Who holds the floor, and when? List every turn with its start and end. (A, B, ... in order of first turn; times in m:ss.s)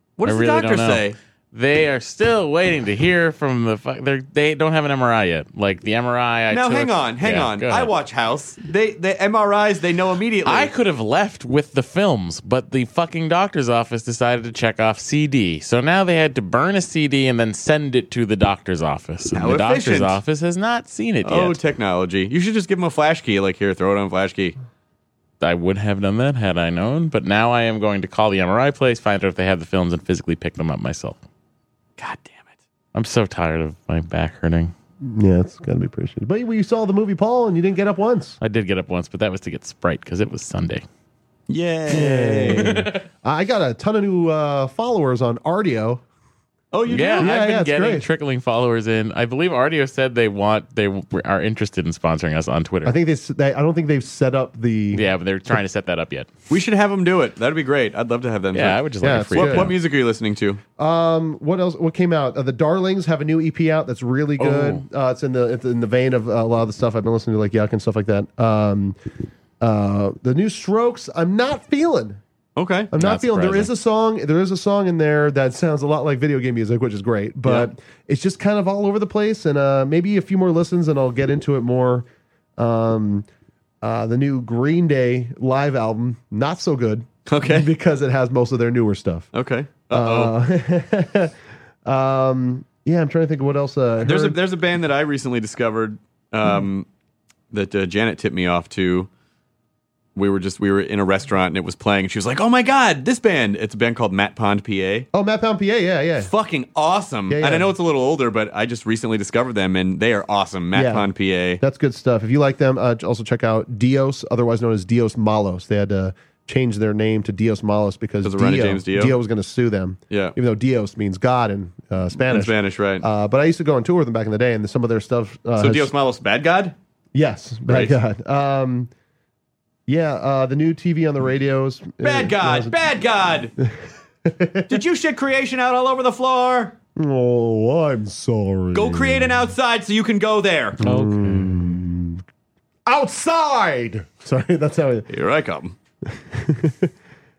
0:00.2-0:01.2 A
0:00.2-0:07.9 B
0:06.5-0:10.7 A
0:10.4-0:21.6 B
0:19.3-0:20.2 A
0:21.2-0:24.6 A
0:25.4-0:31.2 B
0:32.0-0:32.5 A
0:32.9-0:34.7 B
0:35.0-0:38.4 C
0:38.4-0:40.8 B
0:41.5-0:42.8 A
0:41.9-0:46.0 C
0:42.6-0:43.0 B
0:46.7-0:47.4 A
0:46.9-0:53.0 B
0:47.2-0:48.1 C
0:52.8-0:55.6 C
0:54.9-0:56.3 B
0:56.5-1:00.6 A
0:58.5-0:59.8 B
0:59.0-0:59.7 C
1:00.8-1:09.0 C
1:04.4-1:04.8 B
1:09.6-1:12.2 C
1:12.6-1:12.9 A
1:12.9-1:23.3 C
1:13.0-1:13.7 B
1:23.8-1:29.3 C
1:27.3-1:27.7 A
1:29.3-1:30.3 A
1:29.9-1:31.3 C
1:31.8-1:34.4 C
1:34.0-1:36.9 A
1:37.5-1:39.1 A
1:40.2-1:45.1 A
1:45.1-1:46.3 C
1:46.2-1:51.6 A
1:47.3-1:47.7 C
1:50.7-2:05.9 C
1:58.2-1:59.2 A
2:00.1-2:00.4 A
2:02.2-2:03.0 A
2:05.6-2:06.8 A
2:07.1-2:08.9 C
2:07.7-2:07.9 A
2:09.9-2:12.8 C
2:12.0-2:13.5 A
2:13.6-2:14.8 C
2:14.7-2:16.8 A
2:17.0-2:19.5 C
2:18.7-2:20.8 A
2:20.8-2:22.2 C
2:20.8-2:21.6 B
2:22.9-2:25.1 C
2:25.1-2:25.8 A
2:26.1-2:26.9 C